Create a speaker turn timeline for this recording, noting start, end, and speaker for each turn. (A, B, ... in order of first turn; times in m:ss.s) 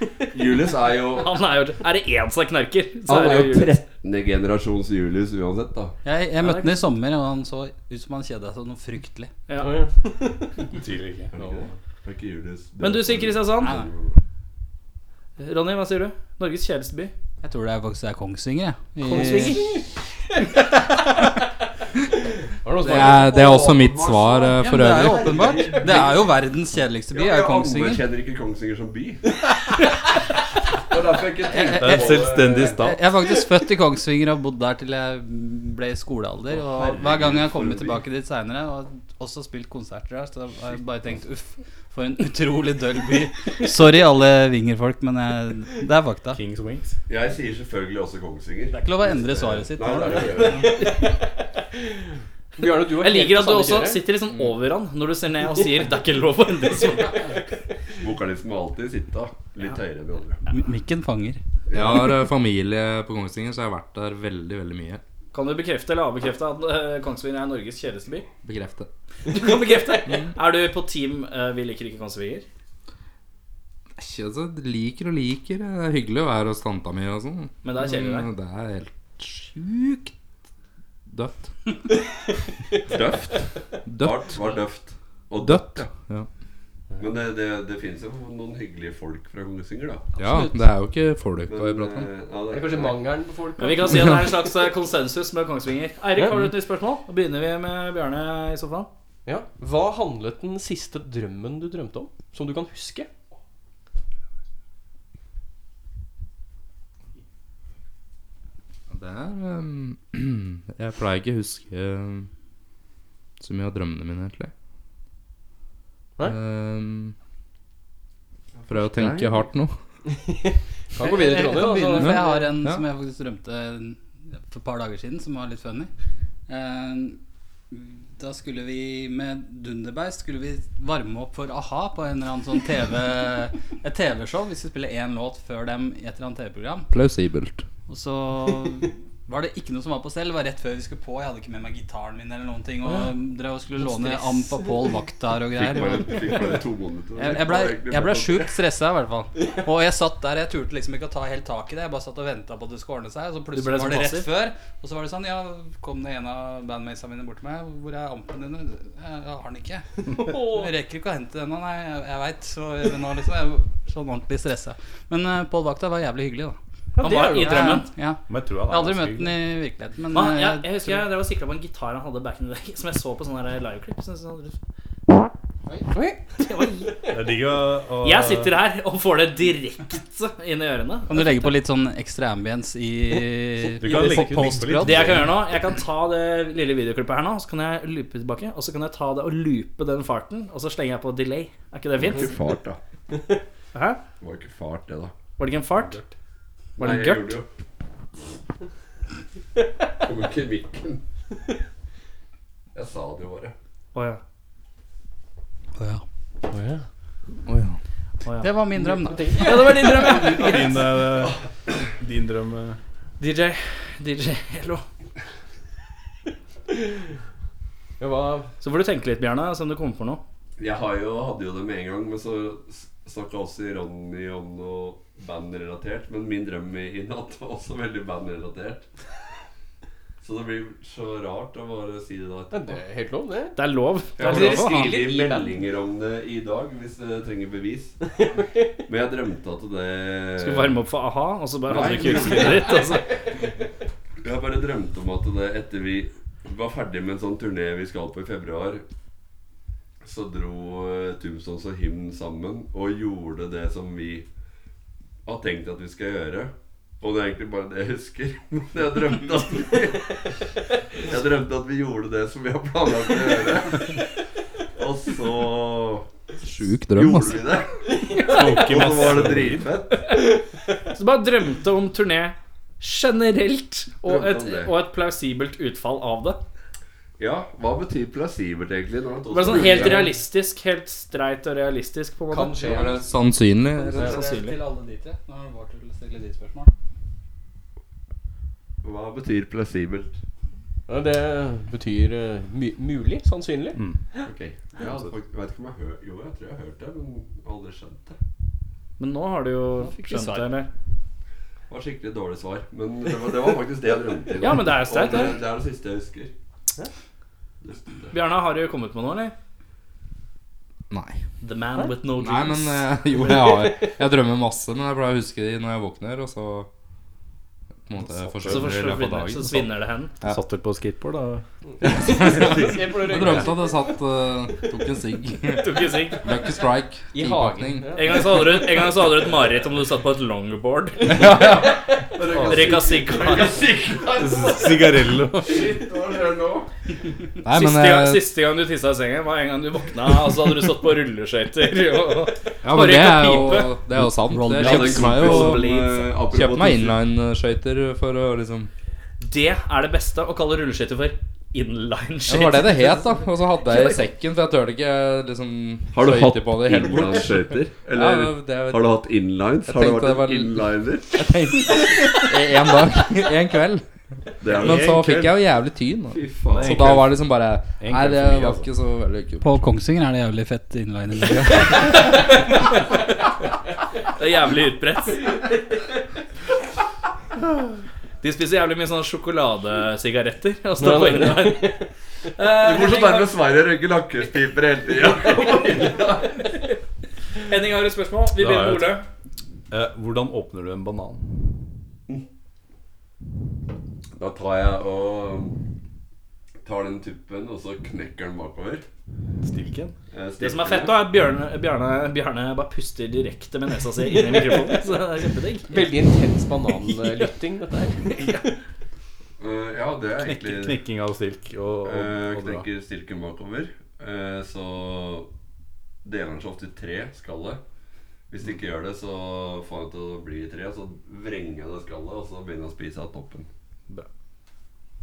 0:00.3-0:01.4 A
0:01.1-0:03.7 B
0:03.1-0:05.9 A
0:06.0-0:09.3 C
0:06.4-0:06.9 B
0:09.5-0:09.8 B
0:09.6-0:10.6 D
0:10.8-0:11.3 E
0:11.3-0:14.2 A
0:11.4-0:11.6 D
0:12.8-0:13.7 B
0:13.6-0:13.9 C
0:15.4-0:17.1 B
0:17.4-0:19.8 C
0:19.0-0:19.9 D
0:22.6-0:23.6 D
0:22.8-0:25.6 F
0:22.8-0:26.4 A
0:24.6-0:28.0 C
0:25.7-0:26.0 D
0:27.1-0:29.3 A
0:30.9-0:33.0 A
0:31.5-0:46.4 C
0:31.7-0:33.0 E
0:36.5-0:38.0 A
0:46.3-0:47.0 E
0:47.1-0:50.9 A
0:48.7-0:51.1 C
0:50.4-0:51.3 D
0:52.6-0:54.0 D
0:53.0-0:57.3 B
0:54.3-0:54.6 F
0:58.0-1:00.4 A
1:00.5-1:01.4 C
1:01.7-1:02.2 A
1:01.7-1:05.0 F
1:05.3-1:08.3 B
1:08.4-1:08.9 F
1:09.3-1:12.5 B
1:10.1-1:10.3 F
1:14.0-1:20.1 F
1:17.6-1:18.3 B
1:21.1-1:21.5 F
1:22.9-1:25.9 A
1:23.8-1:24.6 F
1:25.4-1:26.3 F
1:27.0-1:30.2 A
1:30.2-1:32.1 F
1:31.5-1:33.1 A
1:32.5-1:34.3 D
1:33.6-1:38.9 B
1:36.2-1:36.4 D
1:39.3-1:43.1 D
1:48.9-1:52.3 F
1:53.4-1:54.5 F
1:56.2-1:57.2 F
1:58.7-1:59.8 F
2:00.1-2:02.5 D
2:01.0-2:05.9 C
2:02.0-2:02.8 F
2:06.5-2:07.2 C
2:07.7-2:16.9 C
2:16.9-2:17.6 F
2:17.9-2:26.7 C
2:23.8-2:24.7 D
2:25.5-2:28.6 A
2:27.2-2:46.6 C
2:33.5-2:34.3 B
2:40.1-2:40.6 D
2:47.0-2:47.8 D
2:47.0-2:47.9 B
2:47.1-2:51.0 C
2:48.3-2:49.4 E
2:50.1-2:54.6 B
2:55.9-2:56.4 D
2:56.4-2:57.1 B
2:57.1-2:58.5 E
2:58.0-3:01.3 B
3:01.1-3:05.3 C
3:03.8-3:05.3 E
3:04.8-3:12.3 B
3:12.0-3:12.8 A
3:13.7-3:14.0 B
3:14.2-3:15.1 A
3:15.4-3:16.0 B
3:15.8-3:16.1 E
3:16.8-3:17.4 B
3:16.8-3:17.5 A
3:20.0-3:21.0 A
3:22.8-3:23.5 A
3:23.9-3:24.2 B
3:25.8-3:26.0 C
3:26.5-3:26.8 D
3:27.5-3:27.8 F
3:28.4-3:29.8 C
3:28.8-3:30.4 D
3:29.3-3:30.8 B
3:30.2-3:31.4 E
3:32.0-3:32.8 E
3:33.2-3:34.8 B
3:38.0-3:38.5 D
3:38.6-3:40.2 B
3:40.6-3:48.9 A
3:50.2-3:52.8 A
3:52.5-3:53.6 D
3:53.6-3:55.0 B
3:54.2-3:58.0 A
3:54.2-3:55.5 D
3:58.2-3:58.6 D
3:58.9-4:00.8 A
4:00.4-4:03.1 B
4:01.7-4:03.0 A
4:04.2-4:08.8 A
4:10.0-4:14.3 A
4:15.3-4:20.3 A
4:21.0-4:24.1 A
4:24.8-4:26.1 A
4:26.4-4:27.5 F
4:26.9-4:27.9 A
4:28.2-4:29.7 E
4:28.4-4:28.7 B
4:28.5-4:30.1 A
4:30.9-4:36.4 B
4:34.0-4:34.7 A
4:37.2-4:40.1 A
4:39.3-4:43.0 B
4:42.3-4:43.0 D
4:42.6-4:44.2 F
4:43.8-4:46.7 C
4:43.9-4:44.6 B
4:48.8-4:50.2 A
4:50.9-4:53.9 D
4:53.8-4:54.0 E
4:54.2-4:58.2 A
4:59.0-5:00.7 B
4:59.8-5:00.5 C
5:01.7-5:06.3 A
5:04.4-5:05.4 B
5:07.6-5:08.2 A
5:08.1-5:09.3 B
5:10.9-5:11.2 F
5:11.4-5:12.9 B
5:12.1-5:16.7 F
5:13.2-5:13.9 D
5:17.9-5:20.4 F
5:18.0-5:18.8 E
5:18.5-5:20.1 B
5:20.2-5:21.4 E
5:21.8-5:23.9 D
5:21.8-5:28.0 F
5:25.6-5:26.2 B
5:27.1-5:29.0 D
5:28.0-5:31.4 B
5:31.1-5:31.8 F
5:32.0-5:36.7 A
5:32.4-5:32.8 E
5:32.4-5:33.6 B
5:34.2-5:35.8 E
5:37.4-5:38.3 F
5:37.5-5:43.7 B
5:42.6-5:45.7 F
5:44.3-5:45.2 C
5:44.5-5:47.0 A
5:46.2-5:48.7 F
5:49.2-5:54.0 B
5:52.3-5:59.0 F
5:55.9-6:01.3 A
5:59.7-6:03.9 F
6:04.4-6:05.3 A
6:04.4-6:09.6 F
6:04.6-6:05.3 E
6:06.1-6:07.1 A
6:06.5-6:07.1 E
6:07.8-6:08.7 E
6:09.4-6:12.4 C
6:11.8-6:12.2 B
6:14.1-6:15.5 B
6:18.2-6:21.8 B
6:20.8-6:21.9 D
6:22.4-6:23.3 B
6:22.6-6:26.5 A
6:27.4-6:29.0 B
6:28.4-6:29.0 E
6:29.7-6:31.2 E
6:34.2-6:35.6 A
6:36.6-6:38.8 A
6:39.4-6:40.0 E
6:40.1-6:41.0 A
6:40.4-6:45.9 B
6:45.7-6:48.5 D
6:49.4-6:50.8 A
6:50.2-6:52.7 E
6:51.8-6:55.3 A
6:56.0-6:57.6 A
6:58.3-7:03.5 A